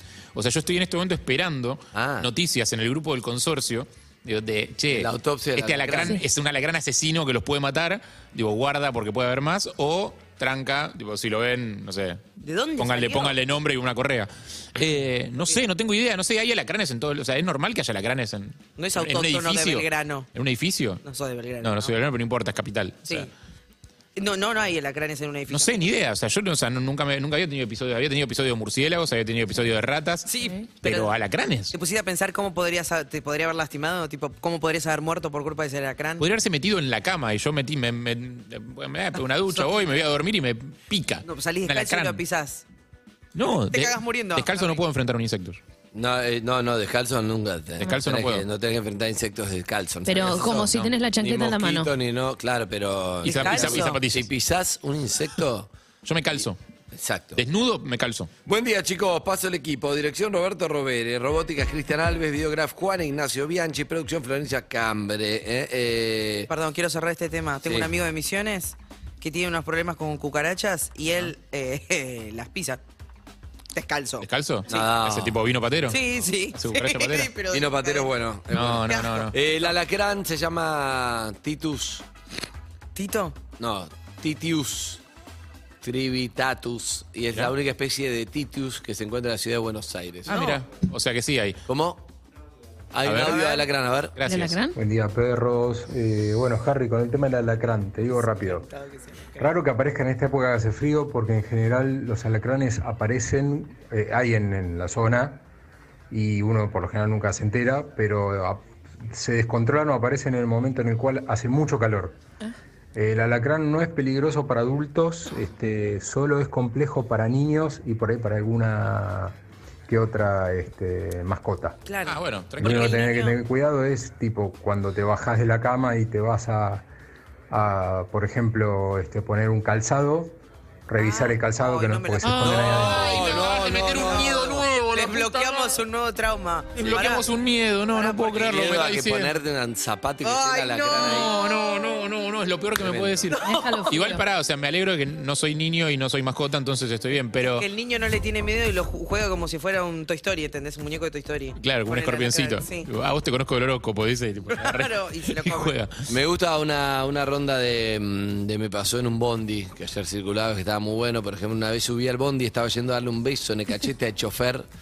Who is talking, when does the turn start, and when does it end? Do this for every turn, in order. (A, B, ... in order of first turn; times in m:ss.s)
0:00.4-0:12.2 A
0:01.9-0:02.3 B
0:04.9-0:06.2 B
0:12.4-0:13.4 C
0:12.8-0:21.0 A
0:18.8-0:20.3 C
0:21.0-0:21.9 C
0:21.6-0:23.3 A
0:24.2-0:25.9 C
0:25.5-0:30.3 A
0:30.3-0:31.1 C
0:30.8-0:31.7 A
0:31.7-0:36.2 C
0:36.2-0:42.2 A
0:39.5-0:39.9 C
0:41.2-0:42.6 C
0:43.4-0:45.6 A
0:43.7-0:44.8 C
0:45.9-0:55.7 B
0:47.8-0:48.4 A
0:50.1-0:51.9 D
0:50.6-0:50.9 A
0:53.2-0:54.3 A
0:53.3-0:54.0 C
0:56.0-0:56.6 A
0:56.3-0:57.4 B
0:57.4-0:58.3 A
0:58.5-1:06.5 B
1:06.5-1:12.8 C
1:07.6-1:07.9 B
1:13.7-1:14.3 C
1:14.2-1:17.3 A
1:14.7-1:15.4 B
1:15.9-1:18.2 C
1:17.5-1:22.0 B
1:18.5-1:19.4 A
1:18.9-1:19.8 C
1:23.0-1:23.4 C
1:23.6-1:25.0 B
1:25.8-1:30.4 B
1:30.3-1:31.6 A
1:30.3-1:30.6 C
1:31.7-1:32.1 B
1:32.9-1:34.1 B
1:33.0-1:33.6 A
1:34.2-1:34.6 A
1:34.3-1:34.8 D
1:34.8-1:38.7 E
1:39.4-1:45.4 E
1:46.1-1:52.2 E
1:52.9-1:59.4 E
1:59.9-2:01.8 E
2:01.9-2:03.3 C
2:02.0-2:03.0 A
2:02.6-2:06.9 E
2:07.5-2:10.4 E
2:10.9-2:13.2 E
2:11.0-2:13.4 C
2:12.2-2:15.8 A
2:13.0-2:14.7 B
2:14.0-2:17.2 C
2:16.8-2:19.3 A
2:17.9-2:18.7 C
2:18.4-2:21.3 B
2:20.2-2:21.3 C
2:21.0-2:23.4 A
2:22.8-2:23.5 B
2:23.4-2:24.2 D
2:23.9-2:27.7 A
2:27.6-2:32.9 C
2:31.6-2:36.0 A
2:34.5-2:35.7 C
2:36.1-2:44.7 B